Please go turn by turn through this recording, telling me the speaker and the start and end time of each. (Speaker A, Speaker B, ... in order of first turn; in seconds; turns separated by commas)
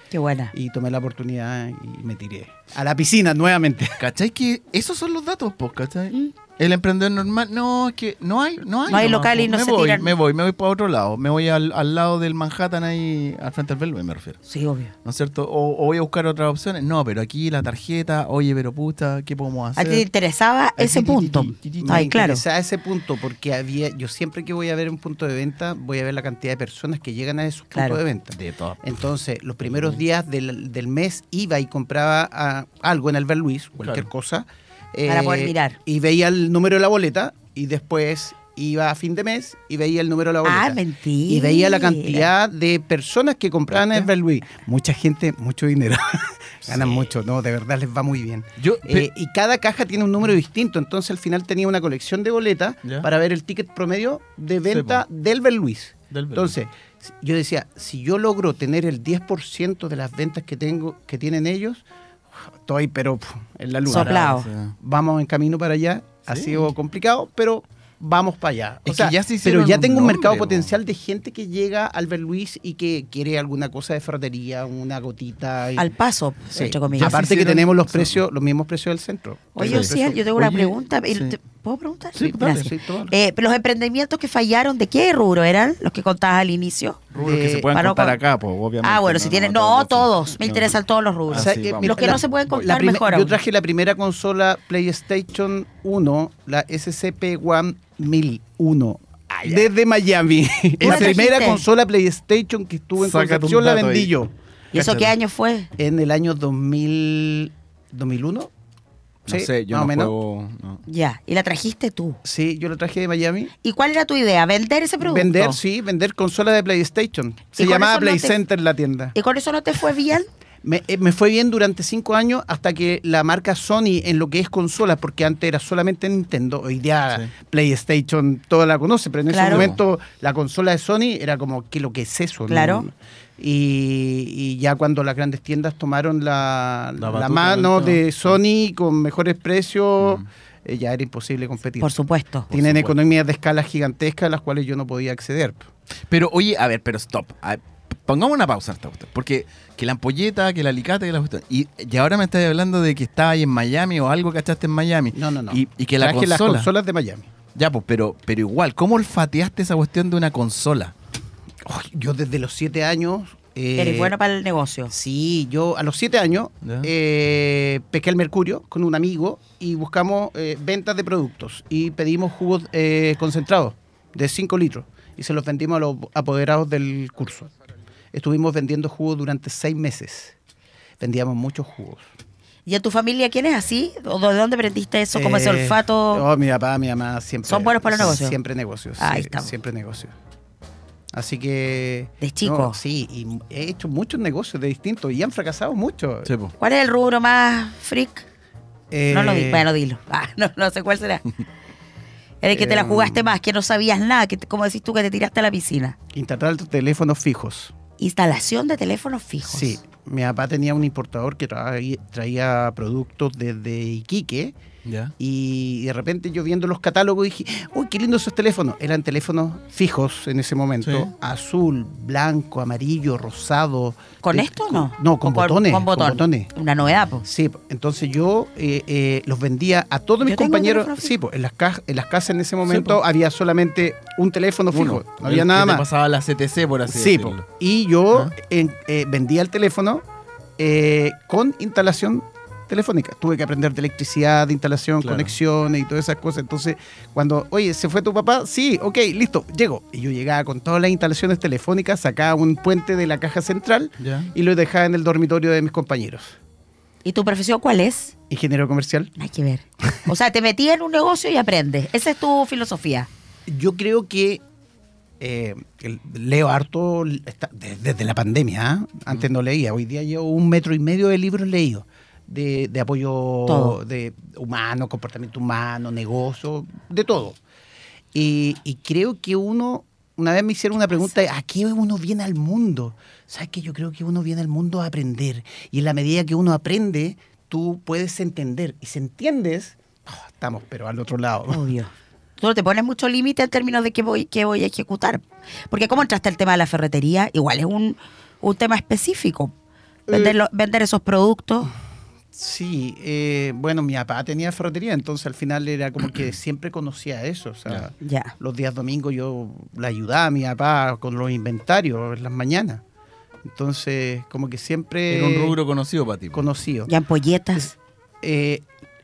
Speaker A: 0.1-0.5, Speaker B: 0.5-4.0, Speaker C: 4.0-14.4, Speaker A: 8.9-10.1, Speaker A: 14.4-14.9, Speaker C: 15.0-20.1, Speaker A: 19.8-22.4, Speaker C: 20.8-22.1, Speaker B: 21.8-61.8, Speaker A: 27.7-28.0, Speaker C: 28.3-28.9, Speaker C: 29.6-30.0, Speaker C: 33.8-34.1, Speaker A: 35.1-35.8, Speaker A: 40.4-42.2, Speaker C: 43.7-44.1, Speaker C: 46.7-47.1, Speaker C: 48.6-49.1, Speaker C: 54.7-55.0, Speaker C: 56.1-56.5, Speaker B: 62.6-75.9, Speaker C: 63.9-64.8, Speaker A: 63.9-64.5, Speaker C: 66.3-66.7, Speaker C: 68.8-70.8, Speaker A: 75.8-77.2, Speaker B: 76.5-80.3, Speaker C: 76.9-78.2, Speaker A: 79.5-87.1, Speaker C: 79.6-81.4, Speaker C: 82.1-82.7, Speaker B: 82.4-83.1, Speaker C: 87.1-92.2, Speaker B: 87.2-87.7, Speaker A: 87.7-88.2, Speaker A: 88.8-93.3, Speaker B: 91.3-104.3, Speaker C: 99.4-99.7, Speaker C: 100.8-101.3, Speaker A: 100.8-101.6, Speaker C: 103.0-104.1, Speaker A: 104.7-105.7, Speaker C: 104.7-105.1, Speaker B: 105.8-108.5, Speaker C: 109.2-110.8, Speaker B: 109.3-110.1, Speaker A: 110.9-112.2, Speaker B: 112.2-113.5, Speaker A: 113.6-115.6, Speaker B: 115.0-119.1, Speaker A: 117.5-118.4, Speaker A: 119.1-120.3, Speaker B: 120.6-145.7, Speaker A: 129.3-129.6, Speaker C: 129.4-129.8, Speaker A: 132.5-132.9, Speaker C: 137.0-138.4, Speaker C: 140.0-140.3, Speaker A: 141.8-142.5, Speaker C: 142.5-142.9, Speaker C: 146.1-156.7, Speaker B: 155.1-157.3, Speaker C: 157.5-160.9, Speaker B: 161.6-164.2, Speaker A: 163.7-164.9, Speaker B: 164.9-177.5, Speaker C: 166.6-166.9, Speaker B: 178.1-180.3, Speaker B: 181.0-182.1, Speaker A: 182.7-186.2, Speaker B: 185.1-190.1, Speaker A: 187.4-188.3, Speaker A: 189.0-189.5, Speaker B: 191.1-196.3, Speaker A: 192.2-192.8, Speaker C: 196.2-196.5, Speaker A: 196.6-198.2, Speaker B: 198.9-199.7, Speaker A: 199.1-201.2, Speaker A: 202.4-205.9, Speaker B: 202.5-203.3, Speaker B: 206.1-207.7, Speaker A: 208.0-209.8, Speaker B: 209.4-214.5, Speaker C: 214.8-215.1, Speaker B: 215.2-226.5, Speaker C: 220.8-221.1, Speaker A: 224.2-227.2, Speaker B: 227.2-235.8, Speaker A: 230.2-231.1, Speaker C: 232.6-233.0, Speaker C: 234.7-237.4, Speaker B: 236.9-240.0, Speaker B: 240.6-256.4, Speaker C: 245.0-245.3, Speaker C: 254.0-254.3, Speaker A: 257.0-258.1, Speaker B: 258.3-259.1, Speaker A: 259.1-263.1, Speaker B: 263.5-264.4, Speaker B: 265.2-277.4, Speaker A: 273.5-273.8, Speaker B: 278.1-291.6, Speaker A: 291.5-299.5, Speaker B: 300.1-300.4, Speaker A: 300.1-301.7, Speaker B: 302.3-312.8, Speaker A: 308.0-308.3, Speaker B: 313.4-315.6, Speaker C: 315.1-316.4, Speaker B: 316.3-316.9, Speaker A: 316.9-317.7, Speaker B: 317.6-318.6